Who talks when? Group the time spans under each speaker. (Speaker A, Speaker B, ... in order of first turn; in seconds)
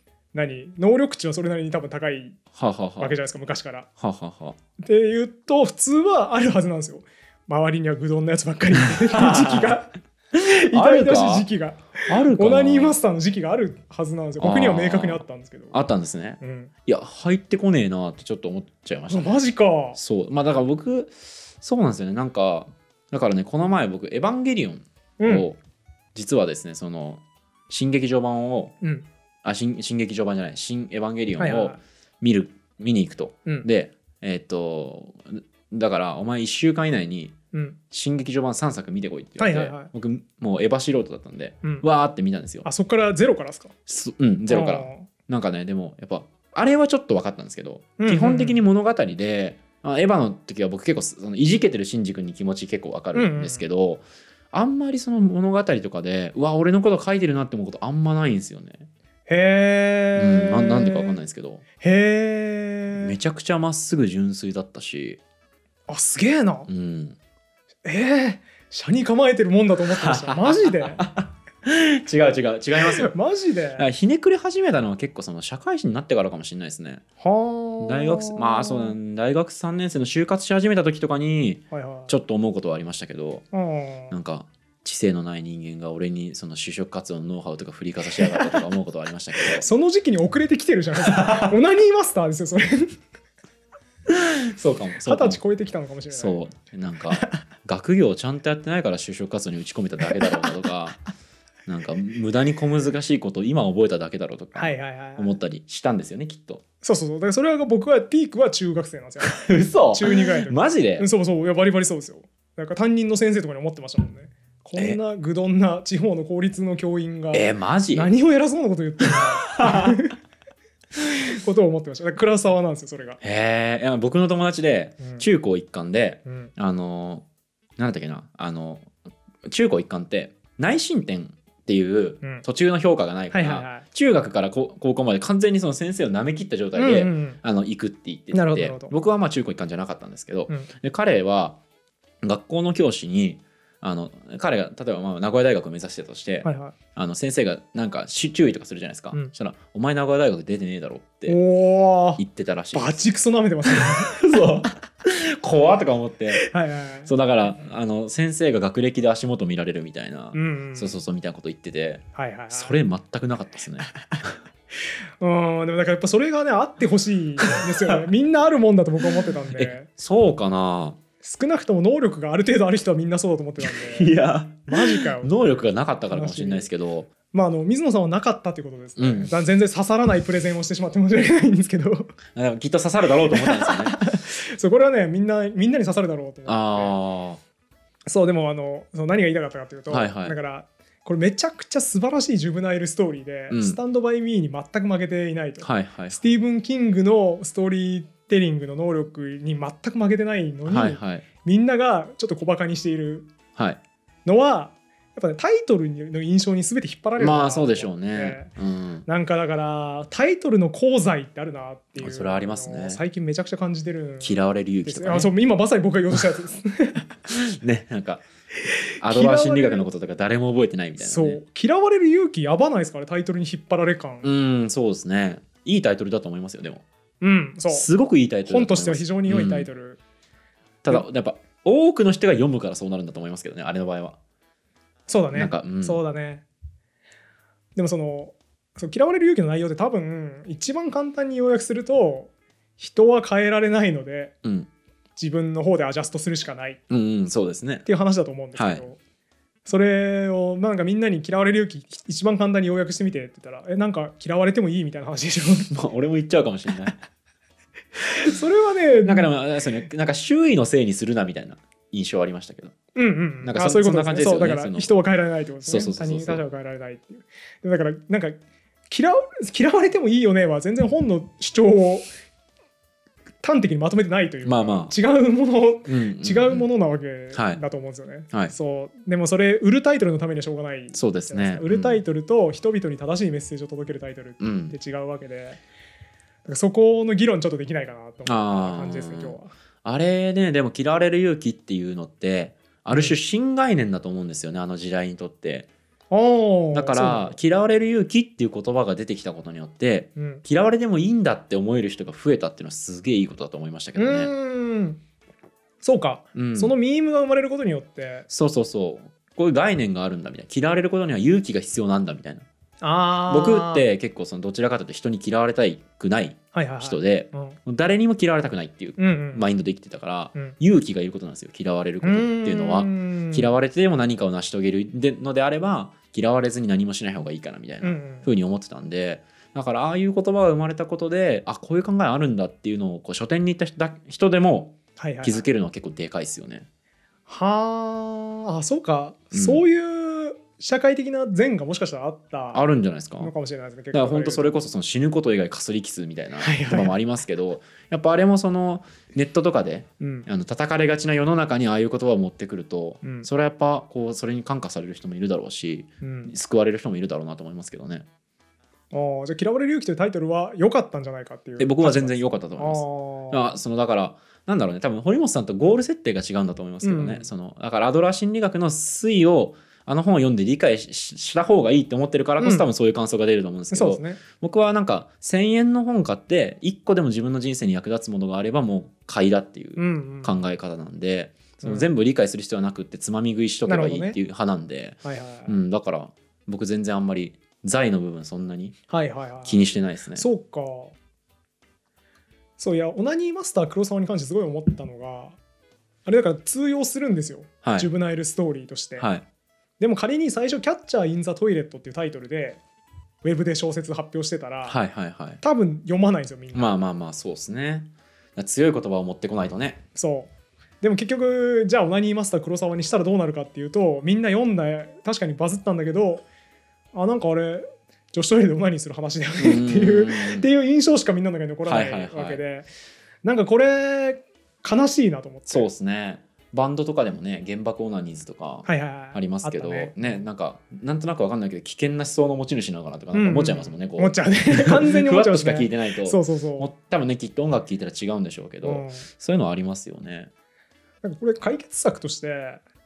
Speaker A: 0.3-2.4, 3.0-3.9, 4.8-15.8, 16.4-16.7, 19.1-20.0, 25.2-25.5, 31.4-31.8, 37.5-37.8, 39.4-39.9, 42.6-43.8, 44.5-45.1, 48.0-48.6, 53.1-53.6, 59.3-61.2, 61.8-63.1, 65.9-66.7, 67.8-71.0, 72.8-73.9, 77.2-79.0, 81.7-82.1, 83.5-84.1, 88.2-88.5, 89.5-93.0, 95.0-96.4, 100.2-100.5, 104.6-105.4, 106.8-120.2, 121.3-123.2, 126.3-126.5, 133.3-133.8, 136.8-137.4, 138.3-138.9, 146.4-146.8, 151.3-154.4, 156.4-157.1, 160.3-161.0, 162.2-162.8, 165.2-169.9, 171.2-175.3, 176.1-176.7, 177.3-182.2, 183.3-187.0, 188.1-203.3, 204.2-208.5, 209.1-217.1, 219.0-219.9, 221.0-224.3, 227.2-227.9, 228.5-230.0, 235.1-236.4, 237.8-244.3, 245.2-246.8, 247.8-249.0, 249.7-255.7, 258.1-259.3, 262.9-268.4, 268.9-272.1, 273.4-285.6, 286.4-289.5, 292.9-293.2, 296.1-297.4, 300.2-300.4, 304.0-305.0, 305.8-308.3, 312.8-313.9, 316.5-317.6, 319.0-319.5, 322.0-323.5, 327.8-328.3, 335.0-335.5, 337.3-342.6, 343.2-344.6, 346.4-347.0, 350.0-350.3, 353.0-353.3, 356.0-356.3, 358.9-363.5, 366.8-367.3, 372.4-372.7, 373.7-374.2, 379.8-380.4, 381.6-381.9, 383.7-384.2, 385.0-385.6, 388.9-389.6, 390.2-390.9, 392.6-395.4, 396.1-399.1, 399.8-402.6, 403.2-404.8, 405.4-406.7, 409.9-410.3, 410.8-416.2, 416.9-422.7, 423.2-425.7, 428.7-430.2, 433.1-436.7, 438.6-439.1, 441.0-442.6
Speaker B: 2.5-3.2, 4.0-4.6, 8.9-9.8, 10.3-11.5, 12.1-13.0, 14.4-19.4, 19.9-25.6, 26.1-28.8, 29.4-37.4, 37.9-42.7, 43.9-58.9, 60.2-61.6, 63.0-65.2, 66.7-67.2, 70.0-73.1, 73.8-77.0, 77.8-83.5, 84.1-89.7, 91.1-91.5, 94.1-95.4, 96.1-101.0, 101.7-106.6, 109.2-111.1, 117.3-118.1, 119.2-120.0, 123.2-127.2, 127.8-128.9, 129.5-141.6, 142.2-151.4, 152.2-153.0, 153.7-156.4, 157.1-164.4, 169.5-171.0, 173.6-177.1, 179.0-179.3, 182.3-184.0, 186.5-187.4, 189.9-190.4, 193.5-193.8, 195.6-196.2, 200.7-201.3, 207.2-209.1, 212.0-213.0, 214.2-215.3, 217.3-218.2, 219.0-221.4, 224.2-226.8, 227.7-229.7, 230.8-234.2, 235.3-236.0, 244.4-244.7, 246.9-247.9, 248.6-248.8, 255.7-257.0, 259.0-262.8, 263.4-264.9, 265.6-266.4, 274.4-274.9, 275.9-276.7, 277.3-277.6, 280.9-282.0, 284.4-284.8, 288.2-295.7, 296.7-304.3, 306.4-306.8, 308.3-312.5, 313.3-336.7, 339.3-339.6, 342.5-343.3, 343.9-358.1, 361.6-388.8, 389.4-390.3, 397.6-397.9, 399.0-399.2, 404.7-405.4, 406.5-409.8, 419.4-420.5, 421.7-422.4, 425.5-440.3